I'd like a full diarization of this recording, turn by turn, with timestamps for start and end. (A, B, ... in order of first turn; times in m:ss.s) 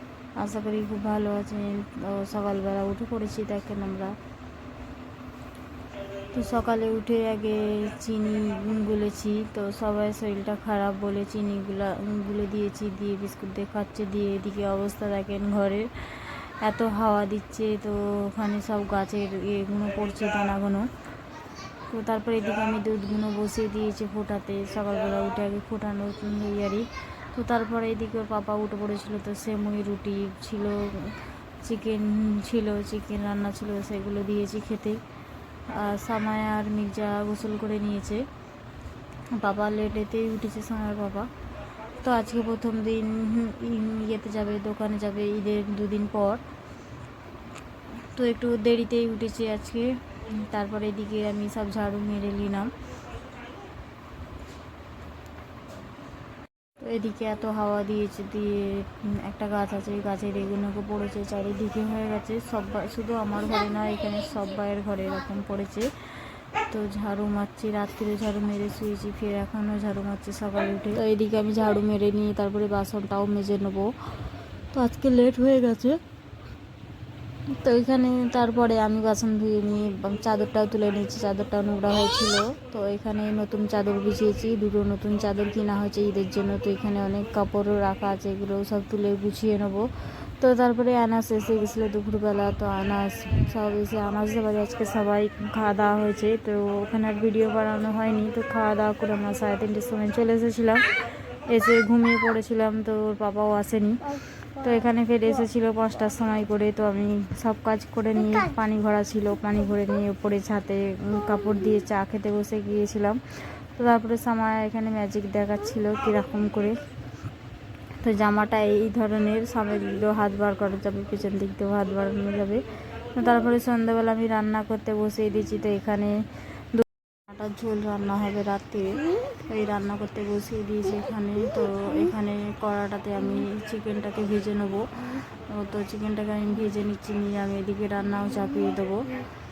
0:00.4-0:04.1 A
0:06.2-0:20.9 A
0:21.9-0:35.0 A
0:35.7-0:38.2 A
0:39.3-0:41.3 A
0:41.9-0:46.4 A
0:48.0-0:52.7 A
0:56.8-1:14.1 A
1:14.7-1:16.0 A
1:17.5-1:56.8 A
1:58.0-2:19.1 A